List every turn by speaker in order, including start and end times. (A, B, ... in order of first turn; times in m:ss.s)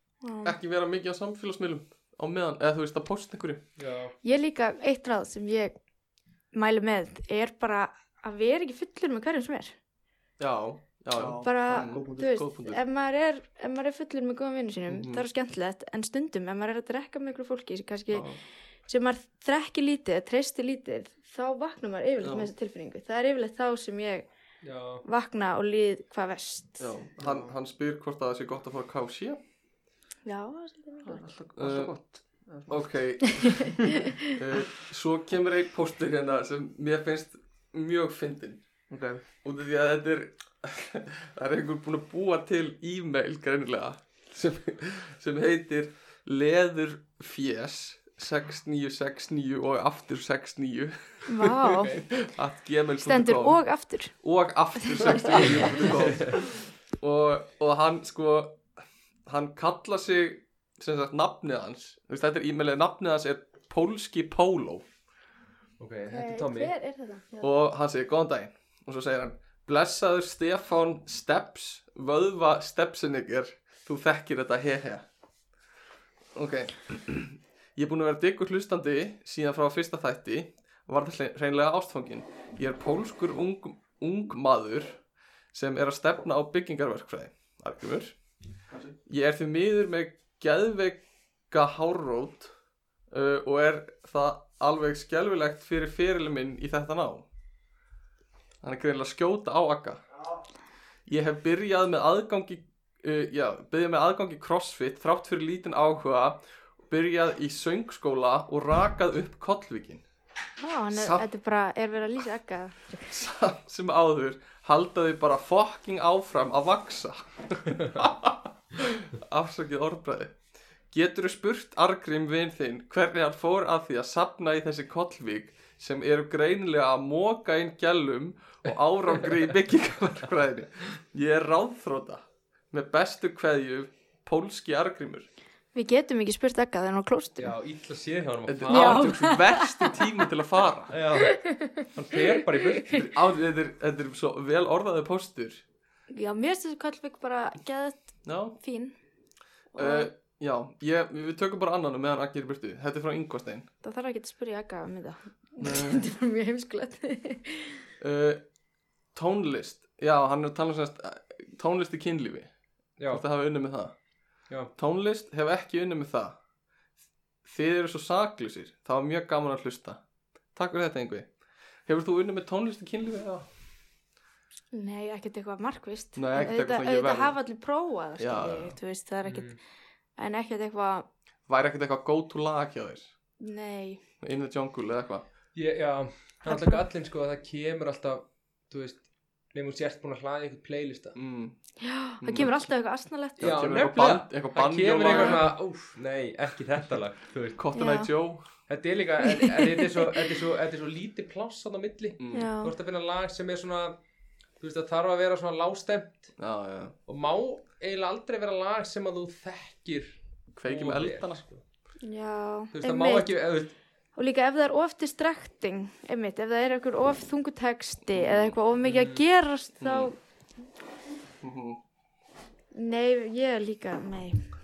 0:00.2-0:00.6 A
0:00.4-0:03.7 B
0:03.8-0:04.1 C
0:04.2-0:05.8 A
0:06.5-0:09.8 A
0:10.4-0:12.8 B
0:11.1-0:12.3 D
0:11.4-0:18.3 A
0:14.9-0:15.2 B
0:18.1-0:18.4 B
0:18.8-0:24.3 A
0:22.2-0:22.5 B
0:24.6-0:25.0 C
0:25.0-0:26.9 A
0:26.8-0:29.4 B
0:27.2-0:27.5 D
0:30.2-0:31.3 A
0:31.0-0:33.3 D
0:31.6-0:31.9 B
0:32.7-0:58.7 B
0:38.9-0:39.2 D
0:51.3-0:52.2 A
0:53.0-0:54.2 A
0:54.9-0:55.7 A
0:55.5-0:56.4 C
0:59.3-1:04.9 B
1:05.8-1:06.7 C
1:06.1-1:07.5 A
1:07.4-1:15.0 B
1:16.4-1:32.5 B
1:28.7-1:29.0 D
1:33.1-1:37.2 B
1:38.6-1:40.1 B
1:41.1-1:50.0 B
1:50.6-1:53.0 A
1:50.9-1:51.2 B
1:53.0-2:15.3 B
2:15.7-2:17.5 A
2:17.4-2:19.2 C
2:18.5-2:21.0 B
2:18.7-2:20.0 A
2:20.9-2:23.0 C
2:21.3-2:21.9 A
2:22.9-2:25.6 B
2:26.1-2:29.0 A
2:28.2-2:28.6 B
2:29.7-2:30.1 A
2:29.8-2:33.7 B
2:33.8-2:37.8 A
2:35.6-2:36.0 B
2:38.0-2:38.4 B
2:39.1-2:46.4 B
2:43.0-2:43.2 C
2:47.4-2:50.0 B
2:50.5-2:53.5 B
2:54.7-2:59.6 A
2:56.2-2:57.4 B
2:58.2-2:58.8 B
2:59.2-2:59.6 C
3:00.2-3:01.1 A
3:01.5-3:03.1 B
3:03.4-3:04.0 A
3:04.2-3:05.3 B
3:05.6-3:11.2 C
3:06.5-3:06.8 A
3:11.2-3:11.6 B
3:11.8-3:13.5 A
3:12.2-3:12.7 B
3:13.4-3:15.5 B
3:13.4-3:17.6 C
3:15.1-3:15.4 A
3:17.6-3:18.5 B
3:17.8-3:18.1 A
3:18.7-3:24.0 C
3:19.3-3:20.2 A
3:22.2-3:22.5 B
3:22.3-3:22.7 A
3:24.6-3:26.4 C
3:26.4-3:27.0 B
3:27.1-3:31.6 C
3:30.6-3:31.4 B
3:32.0-3:33.5 A
3:32.7-3:33.8 C
3:34.1-3:40.2 A
3:38.1-3:38.6 B
3:38.8-3:39.2 C
3:39.8-3:40.1 B
3:41.4-3:41.8 B
3:42.7-3:44.4 A